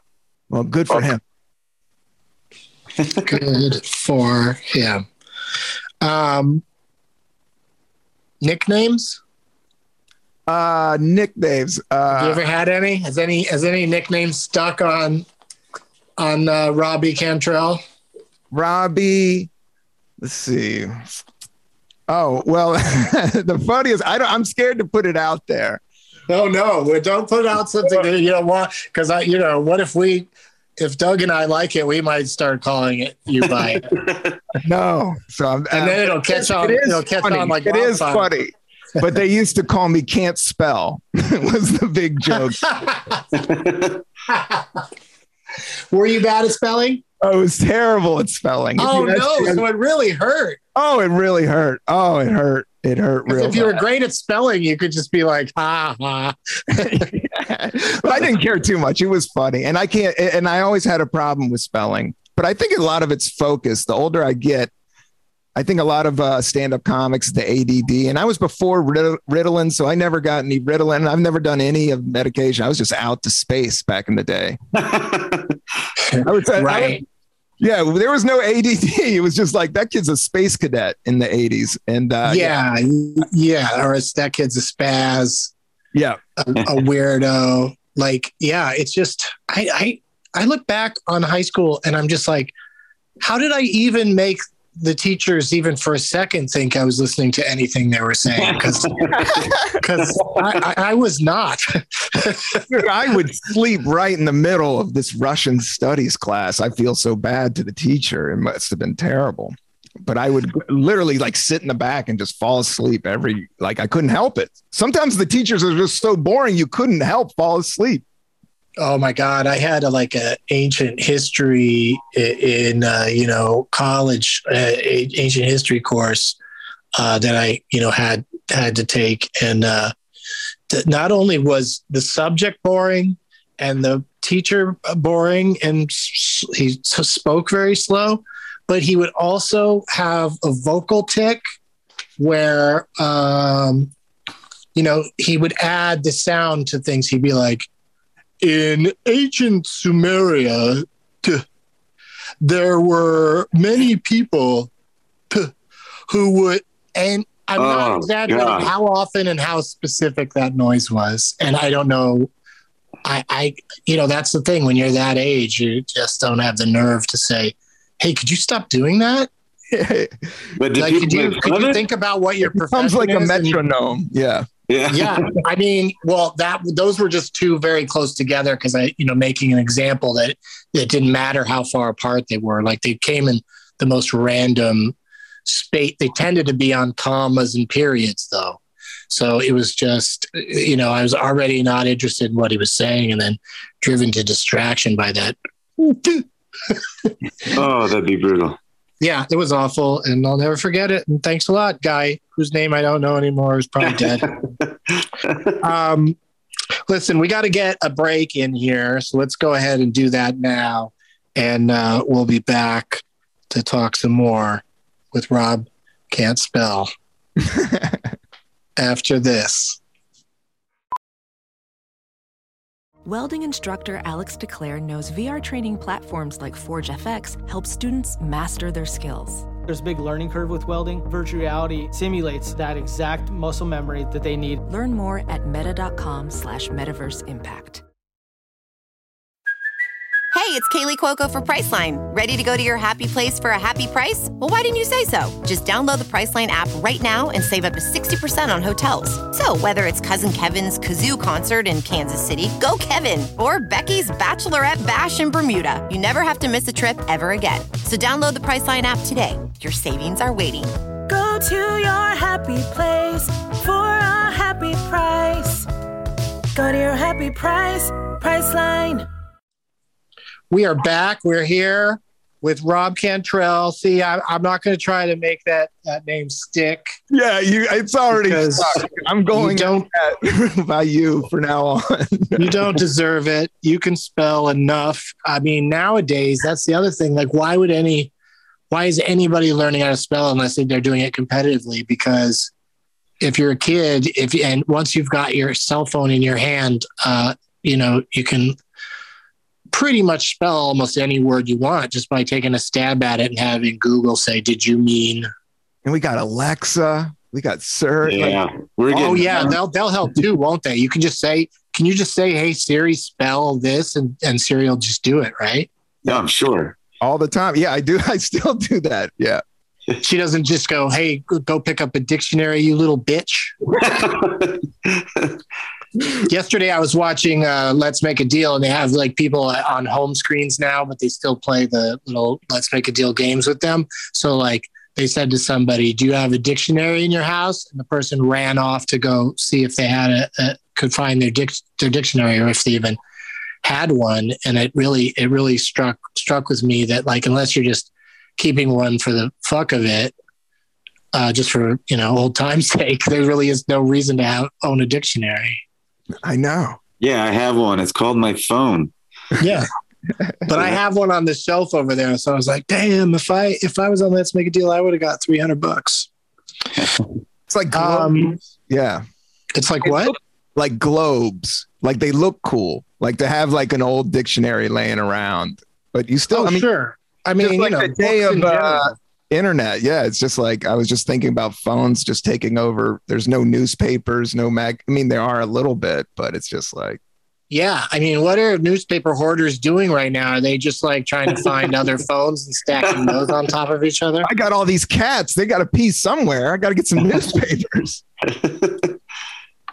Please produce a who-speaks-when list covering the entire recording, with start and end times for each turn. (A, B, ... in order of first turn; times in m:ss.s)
0:00.5-0:01.2 A
0:03.2-0:05.0 B
0:06.0-0:06.6 B
0:08.4-0:09.2 B
0:10.5-0:12.4 A
0:12.1-0:15.3 B
0:16.2-0:17.8 B
0:18.5-0:19.5 A
0:20.2-0:21.1 A
0:22.1-0:25.8 A
0:26.3-0:33.9 B
0:33.9-0:34.3 C
0:34.6-0:42.9 A
0:35.7-0:38.3 B
0:42.8-0:43.2 B
0:43.3-0:44.0 C
0:44.3-0:44.8 B
0:45.9-0:47.0 B
0:47.2-0:49.6 A
0:48.8-0:50.6 B
0:50.8-0:53.8 A
0:53.3-0:57.1 B
0:56.8-1:04.7 A
1:05.6-1:14.6 A
1:14.8-1:15.6 C
1:16.0-1:17.0 B
1:16.2-1:17.0 A
1:17.6-1:22.6 A
1:22.2-1:25.5 B
1:25.9-1:26.2 A
1:26.4-1:32.5 B
1:33.2-1:39.0 B
1:38.4-1:39.2 C
1:39.2-1:39.7 A
1:39.8-1:42.6 B
1:40.1-1:40.4 C
1:42.7-1:58.0 A
1:58.8-2:06.4 B
2:07.0-2:09.9 B
2:10.7-2:21.4 B
2:22.2-2:23.9 B
2:24.8-2:27.7 B
2:28.4-2:31.4 B
2:32.4-2:34.7 B
2:36.1-2:42.3 B
2:37.6-2:38.7 C
2:43.0-2:49.3 B
2:49.7-2:50.5 A
2:50.6-2:51.8 C
2:50.8-2:53.6 B
2:52.4-2:54.5 A
2:54.7-2:55.3 C
2:54.9-3:08.6 B
3:09.1-3:16.8 B
3:17.5-3:18.6 C
3:19.0-3:24.3 B
3:23.9-3:25.5 C
3:25.6-3:26.2 B
3:26.9-3:36.9 B
3:37.4-3:38.1 A
3:38.8-3:39.8 B
3:43.0-3:49.5 D
3:49.7-3:54.6 E
3:54.7-3:57.8 D
4:00.3-4:20.8 F
4:21.1-4:25.7 G
4:26.6-4:29.1 G
4:30.5-4:36.9 B
4:37.1-4:42.8 A
4:38.1-4:39.9 B
4:42.4-4:48.1 B
4:48.7-4:52.5 B
4:53.2-4:58.6 B
4:59.7-5:05.3 B
5:05.8-5:08.4 A
5:08.0-5:09.6 C
5:08.9-5:09.4 A
5:08.9-5:15.7 B
5:16.1-5:16.8 C
5:17.0-5:19.4 A
5:20.0-5:23.6 B
5:23.8-5:25.4 C
5:26.2-5:43.0 B
5:43.6-5:50.1 B
5:51.1-5:55.6 B
5:56.2-5:56.8 A
5:57.0-5:58.9 C
5:59.4-5:59.7 B
6:00.5-6:06.1 B
6:07.5-6:09.0 A
6:07.7-6:08.4 B
6:09.6-6:10.1 B
6:09.8-6:16.7 A
6:16.3-6:19.0 B
6:17.4-6:27.0 A
6:27.5-6:34.3 B
6:32.9-6:33.2 C
6:34.2-6:38.0 A
6:38.3-6:39.0 C